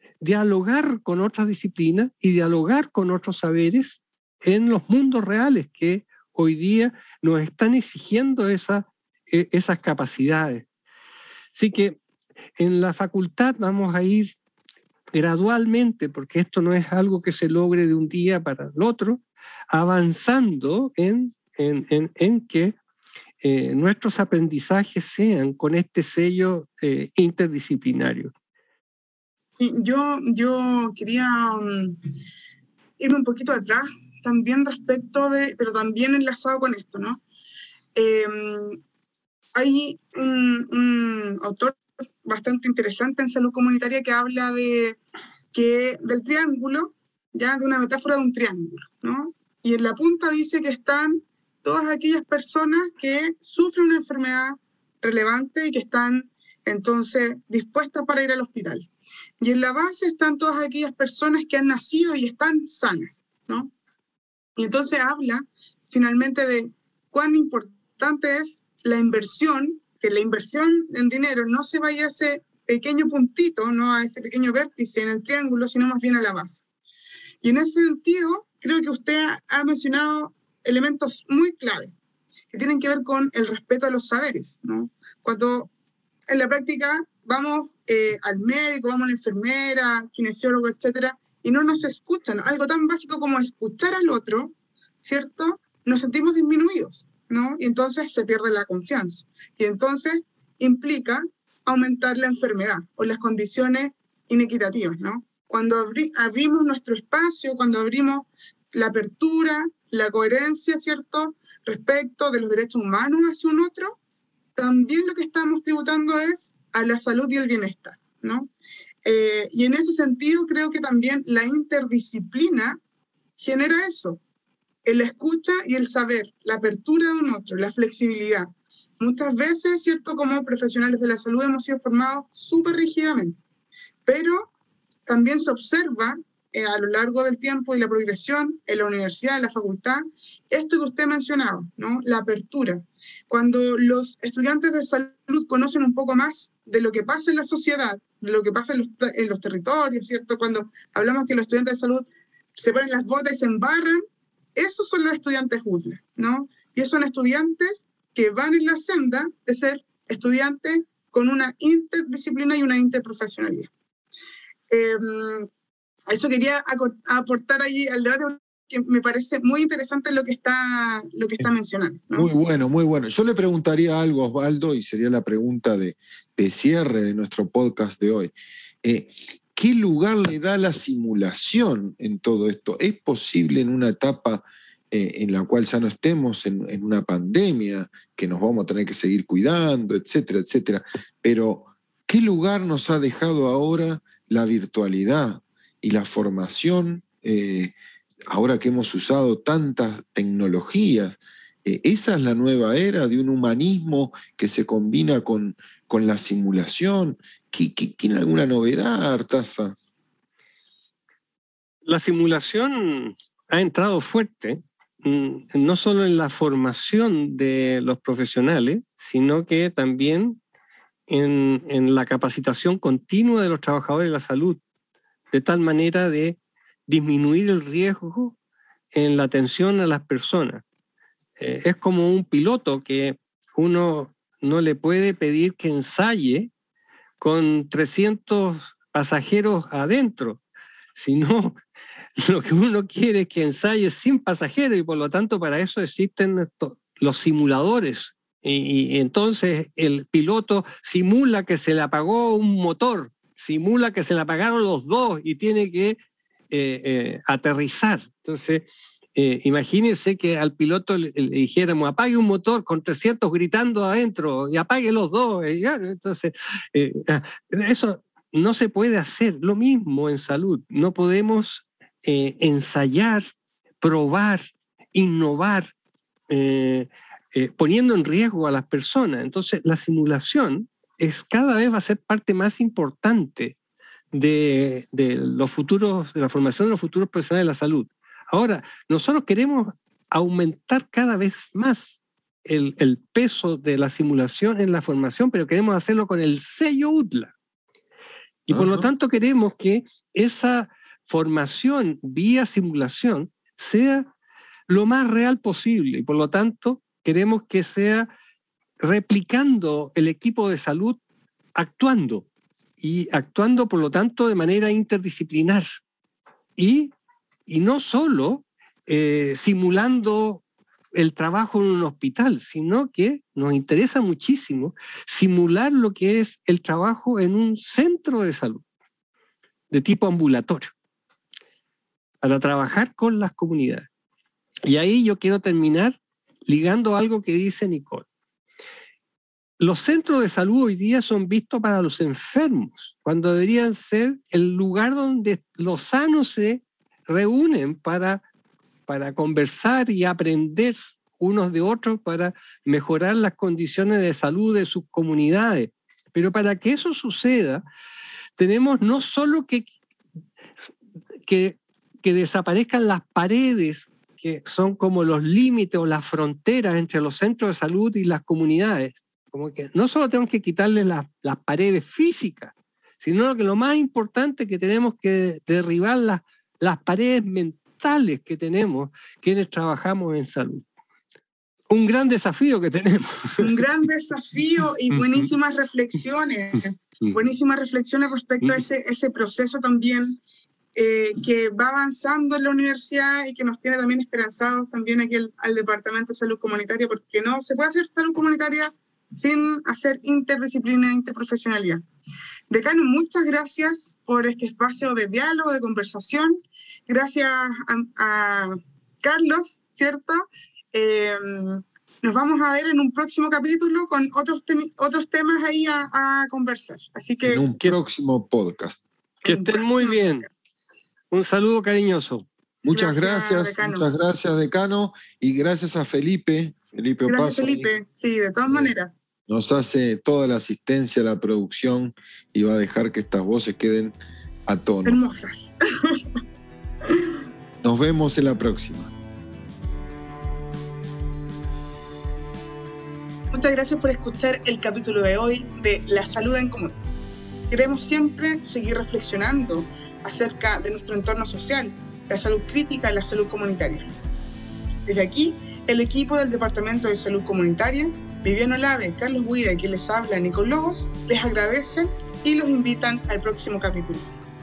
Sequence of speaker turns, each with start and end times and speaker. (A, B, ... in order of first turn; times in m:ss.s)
0:00.2-0:10.6 A
0:11.5-0:12.0 A
0:12.6-0:14.3 A
0:15.1-0:22.8 A
0:23.4-0:28.3 A
0:29.6-0:32.0 B
0:33.0-0:37.2 B
0:38.0-0:38.8 B
0:39.5-0:45.0 B
0:45.5-1:03.7 B
1:04.6-1:16.6 B
1:17.4-1:21.9 B
1:22.5-1:25.7 B
1:26.3-1:54.0 B
1:54.5-1:58.5 B
1:59.0-2:02.8 B
2:03.4-2:04.2 B
2:04.8-2:13.4 B
2:14.0-2:14.5 B
2:15.1-2:34.0 B
2:34.5-2:43.7 B
2:44.7-2:45.5 B
2:46.1-2:52.3 B
2:52.1-2:58.3 C
2:58.8-3:17.7 C
3:18.3-3:29.8 C
3:31.8-3:40.4 A
3:41.1-3:44.6 A
3:45.3-3:48.4 A
3:48.9-3:50.6 A
3:51.4-3:56.5 A
3:57.2-4:00.4 A
4:01.0-4:01.6 A
4:02.2-4:16.0 A
4:16.5-4:18.6 A
4:19.2-4:33.3 A
4:33.8-4:35.7 A
4:36.3-4:43.6 A
4:44.1-4:57.3 A
4:58.5-5:04.1 A
4:58.5-4:58.9 C
5:04.7-5:08.1 A
5:08.8-5:11.0 A
5:11.6-5:12.2 A
5:12.8-5:15.6 A
5:16.6-5:16.9 A
5:17.5-5:20.4 A
5:20.9-5:28.6 A
5:29.7-5:30.7 A
5:32.2-5:33.9 A
5:34.6-5:38.0 A
5:39.6-5:48.2 A
5:48.9-5:57.6 A
5:58.4-5:59.7 A
6:01.2-6:20.6 A
6:21.7-6:23.6 A
6:23.4-6:30.2 B
6:24.9-6:25.3 A
6:30.7-6:41.8 B
6:42.5-6:50.2 B
6:50.7-6:57.4 B
6:57.2-6:58.8 C
6:59.2-7:00.2 B
6:59.2-7:00.3 A
7:01.1-7:02.2 A
7:02.6-7:07.7 C
7:02.7-7:03.9 B
7:07.1-7:08.9 B
7:09.3-7:14.0 C
7:14.5-7:15.0 C
7:14.8-7:16.0 B
7:17.6-7:18.9 C
7:23.3-7:26.8 B
7:27.5-7:33.9 B
7:34.8-7:44.1 B